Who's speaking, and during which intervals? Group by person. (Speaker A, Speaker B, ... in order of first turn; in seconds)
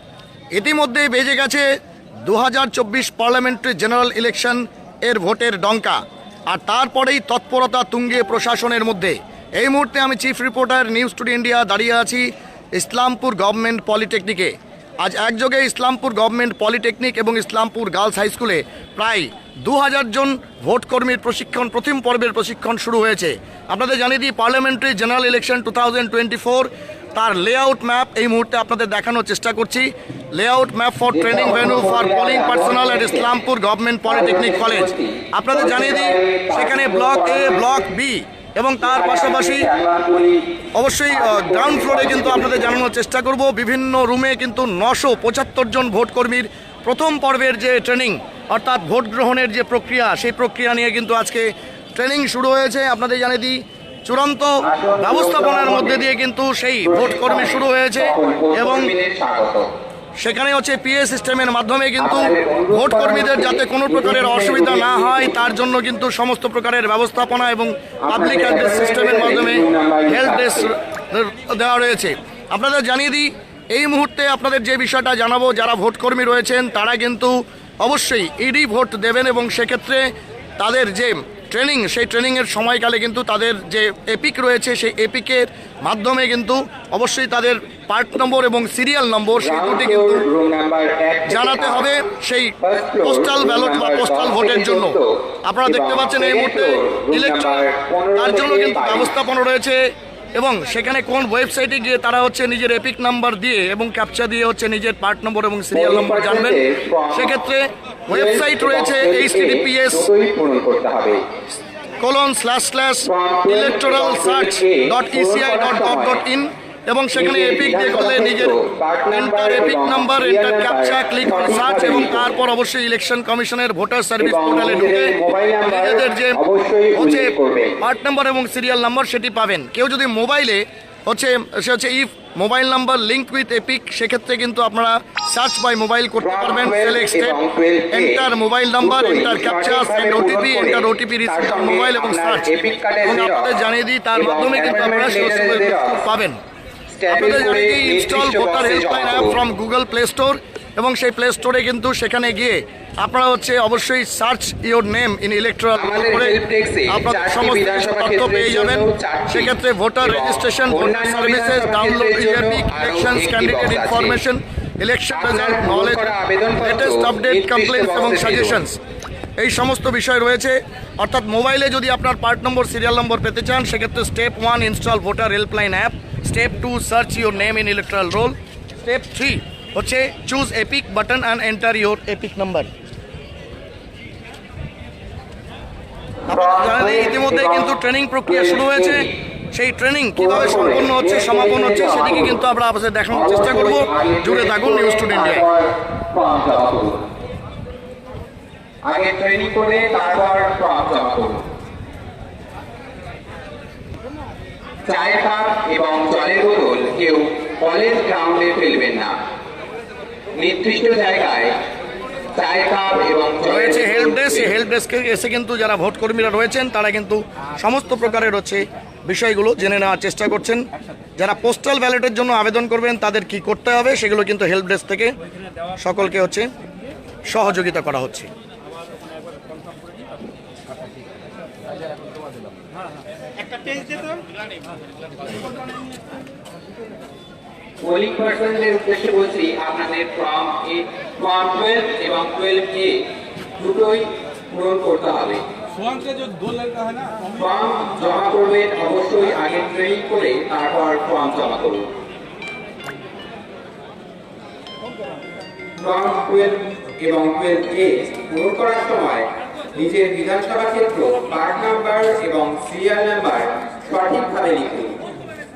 Speaker A: 0.6-1.7, 2.2-6.0, 6.5-39.7, 40.8-58.9, 60.2-80.0, 80.6-90.3, 91.3-99.8, 100.4-106.6, 107.1-110.1, 112.0-118.5, 119.1-125.1, 125.7-126.4, 127.0-137.4, 137.9-142.5, 143.0-146.4, 147.1-166.1, 166.6-168.8, 169.4-182.7, 186.3-195.4, 213.4-220.6, 221.2-225.2, 225.8-226.5, 227.3-228.3
Speaker B: 31.1-33.3, 34.1-37.9, 38.8-40.5, 41.1-42.8, 54.6-56.1, 56.8-59.7, 62.0-65.5, 68.1-70.7, 89.4-92.0, 92.6-99.1, 105.7-107.4, 108.1-111.2, 113.0-116.2, 117.1-122.3, 124.2-127.8, 136.2-138.2, 138.8-143.6, 144.1-146.1, 146.9-149.4, 155.8-164.2, 165.1-168.6, 186.3-189.1, 190.2-192.4, 193.1-197.0, 198.8-201.4, 204.8-209.2, 210.3-211.6, 212.3-214.6, 237.8-243.0, 243.6-245.4, 247.1-251.9, 255.8-265.0